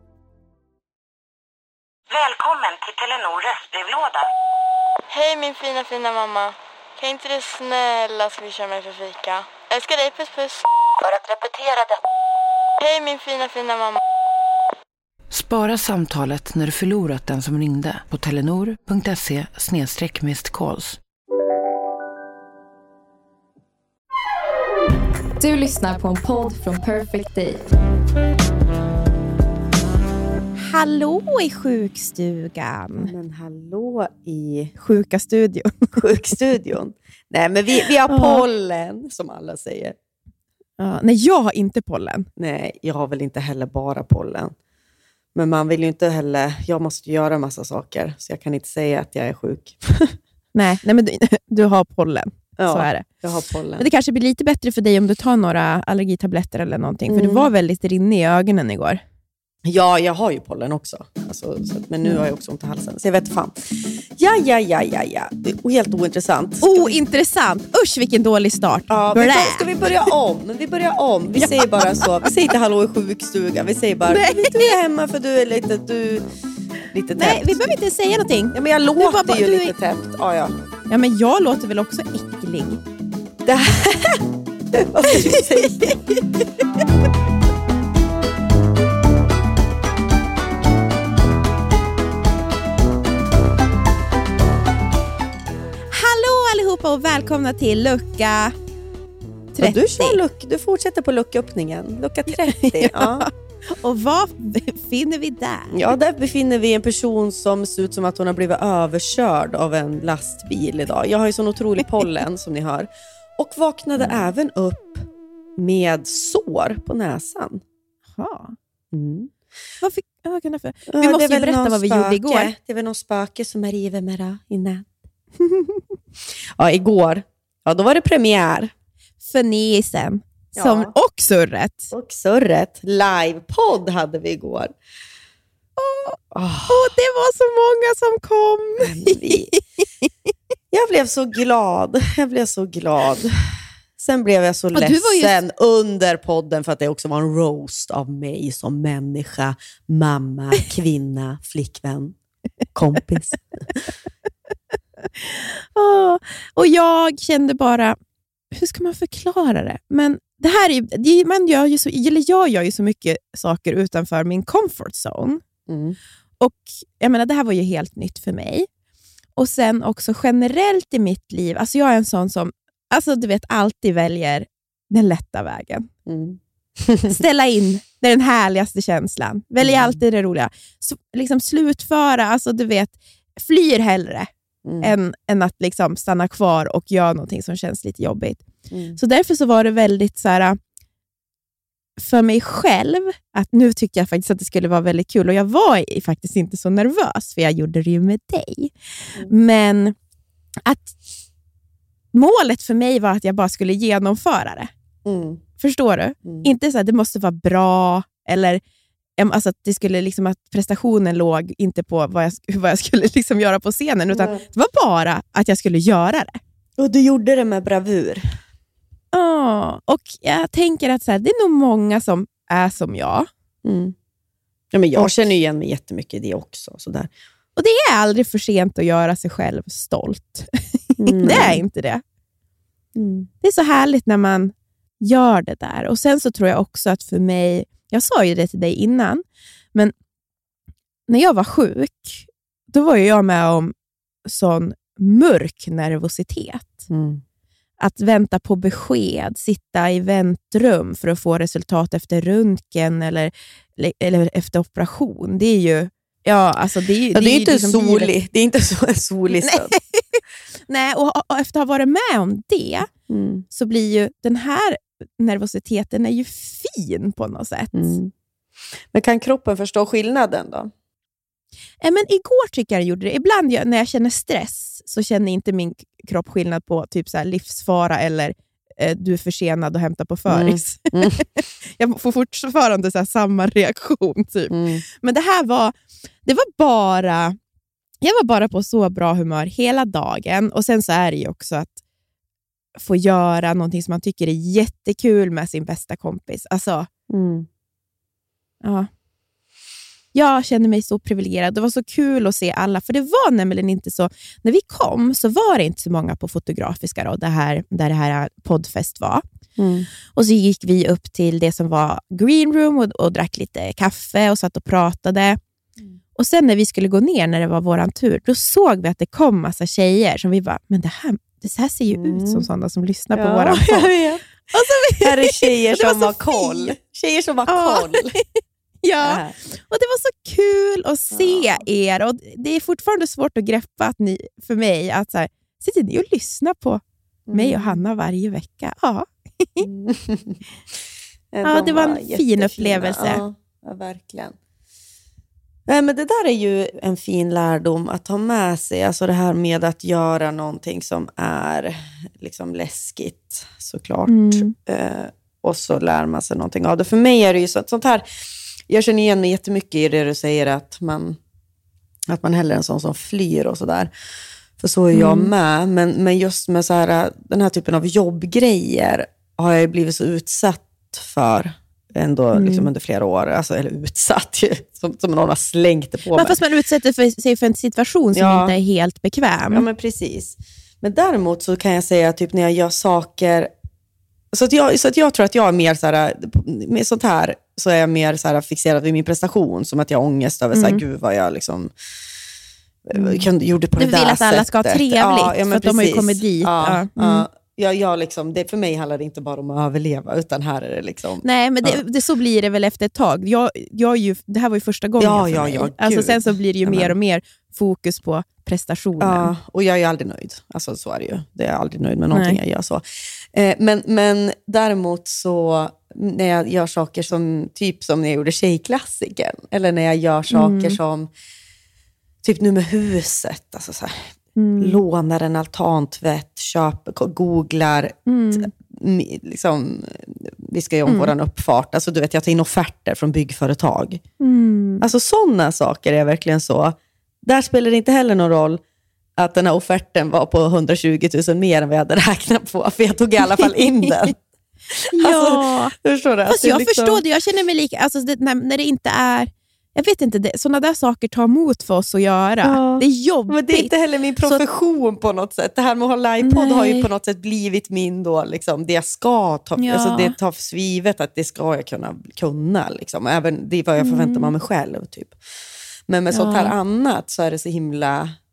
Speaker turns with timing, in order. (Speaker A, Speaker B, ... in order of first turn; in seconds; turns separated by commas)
Speaker A: 2.1-4.2, Speaker B: 5.1-12.0, Speaker B: 12.8-14.0, Speaker C: 15.3-21.0, Speaker D: 25.4-27.6, Speaker E: 30.6-33.1, Speaker F: 33.0-34.7, Speaker E: 34.8-36.0, Speaker F: 35.9-40.0, Speaker E: 38.1-38.4, Speaker E: 40.8-42.3, Speaker F: 42.4-44.5, Speaker F: 45.3-50.2, Speaker E: 50.5-53.1, Speaker F: 52.6-53.9, Speaker E: 53.8-59.0, Speaker F: 57.1-57.5, Speaker F: 59.6-63.5, Speaker F: 64.2-67.0, Speaker E: 66.6-69.7, Speaker F: 68.9-76.2, Speaker E: 71.4-72.3, Speaker E: 74.1-74.8, Speaker F: 76.9-77.6, Speaker E: 77.2-79.7, Speaker F: 78.5-80.5, Speaker E: 80.9-82.8, Speaker F: 83.4-84.2, Speaker F: 84.7-86.0, Speaker E: 85.1-86.2, Speaker E: 95.9-98.5, Speaker E: 99.5-100.2, Speaker F: 99.6-103.3, Speaker E: 102.5-105.9, Speaker F: 105.7-115.0, Speaker F: 115.6-117.6, Speaker E: 118.2-118.5, Speaker F: 118.9-119.3, Speaker E: 119.8-122.5, Speaker F: 120.9-124.9, Speaker F: 126.6-128.7, Speaker E: 129.2-131.9, Speaker F: 130.6-130.9, Speaker F: 131.9-134.7, Speaker E: 135.8-140.1, Speaker F: 136.3-136.9, Speaker F: 138.8-139.5, Speaker F: 140.7-143.4, Speaker F: 144.0-152.2, Speaker E: 144.7-145.4, Speaker F: 152.7-153.8, Speaker E: 155.1-158.0, Speaker E: 158.5-165.4, Speaker F: 165.7-166.0, Speaker E: 166.4-168.7, Speaker E: 169.3-175.9, Speaker F: 176.1-177.2, Speaker E: 177.1-184.3, Speaker F: 179.6-180.0, Speaker F: 184.6-184.9, Speaker E: 184.8-188.4, Speaker F: 188.7-189.0, Speaker E: 188.9-190.6, Speaker E: 192.0-199.9, Speaker E: 200.7-200.9, Speaker E: 202.1-204.7, Speaker F: 205.0-205.4, Speaker E: 205.6-208.6, Speaker F: 206.2-206.5, Speaker E: 209.2-216.4, Speaker F: 214.1-214.4, Speaker F: 216.8-218.2, Speaker E: 219.1-223.3, Speaker F: 223.6-223.9, Speaker F: 224.7-227.1, Speaker E: 227.6-232.0, Speaker F: 231.0-231.6, Speaker F: 232.9-233.3, Speaker E: 233.4-239.2, Speaker E: 241.1-243.7, Speaker E: 244.2-246.8, Speaker F: 246.9-247.2, Speaker E: 247.8-258.1, Speaker F: 257.1-259.7, Speaker E: 259.4-262.9, Speaker F: 263.1-263.4, Speaker E: 263.5-267.9, Speaker F: 267.7-268.1, Speaker F: 268.9-270.7, Speaker E: 271.8-287.4, Speaker F: 280.3-281.2, Speaker F: 284.5-284.8, Speaker E: 288.0-291.8, Speaker E: 292.8-296.9, Speaker F: 297.1-297.5, Speaker E: 298.6-298.9, Speaker E: 300.1-309.2, Speaker F: 309.6-309.9, Speaker E: 310.1-315.4, Speaker E: 316.1-323.9, Speaker F: 321.9-322.4, Speaker F: 323.1-324.3, Speaker E: 324.5-326.7, Speaker F: 325.0-328.2, Speaker E: 327.5-328.2, Speaker E: 328.8-339.6, Speaker F: 329.0-329.3, Speaker F: 331.1-331.6, Speaker F: 337.3-337.8, Speaker F: 339.6-340.4, Speaker F: 341.3-344.3, Speaker E: 341.4-343.2, Speaker F: 345.7-358.0, Speaker E: 354.1-354.5, Speaker F: 358.7-361.2, Speaker F: 362.1-363.9, Speaker F: 364.6-376.4, Speaker E: 364.9-365.3, Speaker E: 372.3-372.7, Speaker E: 376.1-379.6, Speaker F: 378.1-378.5, Speaker F: 379.5-383.5, Speaker F: 384.3-391.7, Speaker E: 390.5-390.8, Speaker F: 392.9-401.8, Speaker E: 392.9-393.2, Speaker E: 393.8-397.2, Speaker E: 401.2-409.3, Speaker F: 405.0-406.9, Speaker F: 409.0-421.1, Speaker E: 412.1-412.4, Speaker E: 420.3-420.8, Speaker F: 422.2-434.0, Speaker E: 424.4-424.8, Speaker E: 428.1-428.5, Speaker E: 430.9-431.1, Speaker E: 434.2-434.8, Speaker F: 434.8-438.6, Speaker F: 439.2-444.2, Speaker F: 444.8-447.0, Speaker E: 444.9-445.7, Speaker E: 446.3-454.4, Speaker F: 452.4-465.2, Speaker E: 456.2-456.9, Speaker E: 459.6-460.1, Speaker E: 463.8-464.3, Speaker F: 465.9-468.1, Speaker E: 466.1-466.5